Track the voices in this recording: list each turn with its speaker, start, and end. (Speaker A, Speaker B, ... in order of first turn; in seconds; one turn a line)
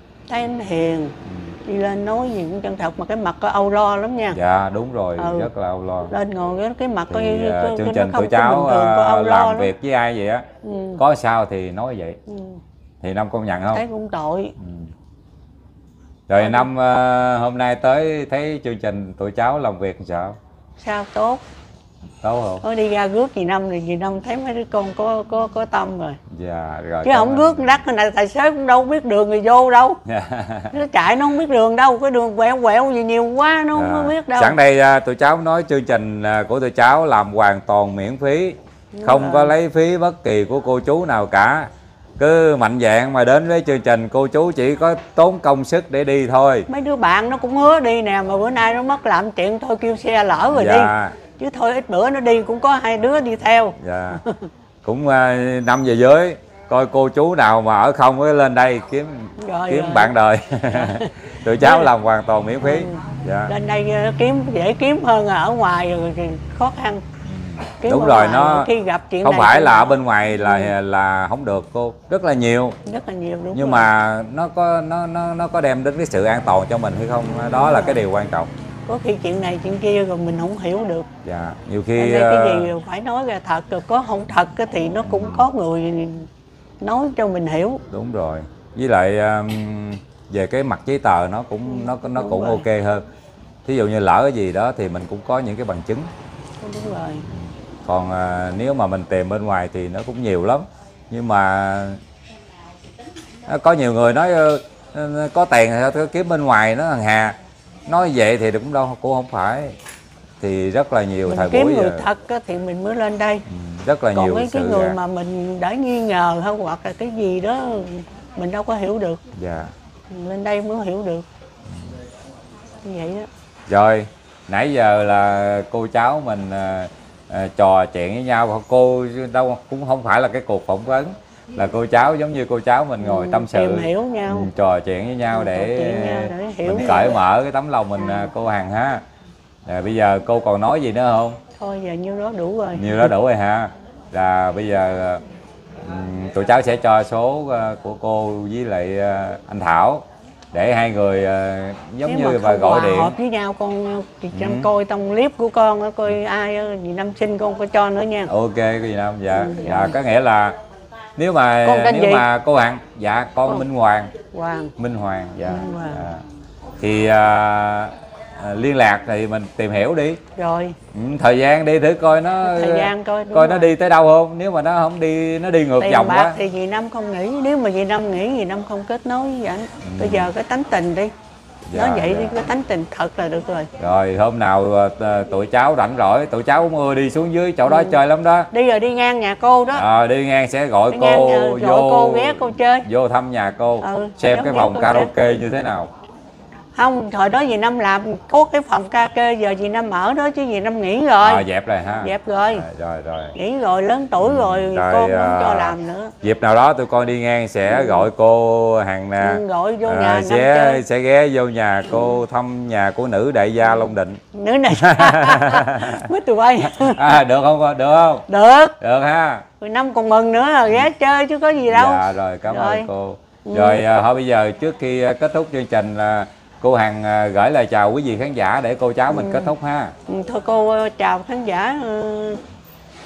Speaker A: 0.3-4.4
Speaker B: 1.3-1.6
Speaker B: 4.3-6.2
Speaker A: 5.2-5.5
Speaker A: 6.1-9.7
Speaker B: 7.1-10.5
Speaker A: 10.6-11.0
Speaker B: 11.0-12.2
Speaker A: 12.3-12.6
Speaker B: 13.0-13.8
Speaker A: 13.7-14.6
Speaker B: 14.6-14.9
Speaker B: 16.3-20.4
Speaker A: 16.4-16.7
Speaker A: 20.8-21.4
Speaker B: 22.2-22.6
Speaker A: 22.6-26.2
Speaker B: 26.3-27.8
Speaker A: 27.0-30.0
Speaker B: 30.1-30.8
Speaker A: 30.7-34.6
Speaker B: 33.7-46.7
Speaker A: 38.9-39.5
Speaker A: 46.7-54.5
Speaker B: 50.5-51.2
Speaker B: 53.8-54.2
Speaker B: 54.8-63.5
Speaker A: 59.4-60.1
Speaker A: 60.7-61.9
Speaker A: 62.6-67.0
Speaker B: 67.2-68.7
Speaker A: 67.8-70.7
Speaker B: 69.2-72.8
Speaker A: 72.8-73.9
Speaker B: 73.5-78.5
Speaker A: 77.2-78.0
Speaker A: 78.9-81.1
Speaker B: 81.2-82.7
Speaker A: 82.0-86.3
Speaker B: 85.0-85.5
Speaker A: 86.8-87.8
Speaker B: 87.9-93.1
Speaker A: 91.7-92.7
Speaker B: 93.7-96.1
Speaker A: 96.6-97.3
Speaker B: 97.8-102.0
Speaker B: 103.5-109.8
Speaker B: 110.4-112.0
Speaker A: 111.2-113.5
Speaker B: 113.5-115.0
Speaker A: 114.1-119.2
Speaker B: 119.3-119.7
Speaker A: 120.1-121.3
Speaker A: 122.8-123.3
Speaker B: 123.7-139.0
Speaker A: 133.0-134.5
Speaker A: 135.3-137.2
Speaker A: 138.0-138.3
Speaker B: 139.7-141.4
Speaker A: 141.6-143.1
Speaker B: 142.8-145.2
Speaker B: 145.8-153.2
Speaker A: 152.1-158.3
Speaker B: 154.3-154.7
Speaker B: 158.3-160.6
Speaker A: 159.3-160.0
Speaker B: 161.2-164.1
Speaker A: 161.6-162.3
Speaker A: 164.3-164.8
Speaker B: 164.8-166.2
Speaker A: 165.4-166.1
Speaker B: 166.8-170.2
Speaker A: 170.4-170.8
Speaker B: 170.9-176.4
Speaker A: 172.4-173.7
Speaker A: 175.8-181.1
Speaker B: 179.8-180.3
Speaker B: 181.7-182.4
Speaker A: 181.7-183.7
Speaker B: 183.8-188.5
Speaker A: 187.7-188.0
Speaker A: 188.5-189.8
Speaker B: 189.7-195.9
Speaker A: 190.9-192.9
Speaker A: 193.8-195.2
Speaker A: 196.8-201.5
Speaker B: 201.2-203.4
Speaker A: 202.0-202.7
Speaker A: 203.3-206.1
Speaker B: 204.2-214.2
Speaker A: 207.7-208.1
Speaker A: 209.2-210.8
Speaker A: 211.9-212.2
Speaker A: 214.3-217.2
Speaker B: 214.7-216.1
Speaker B: 216.7-218.3
Speaker A: 218.3-218.8
Speaker B: 218.8-219.5
Speaker A: 219.6-222.9
Speaker B: 221.6-229.9
Speaker A: 223.4-223.9
Speaker A: 229.1-229.6
Speaker A: 230.1-232.4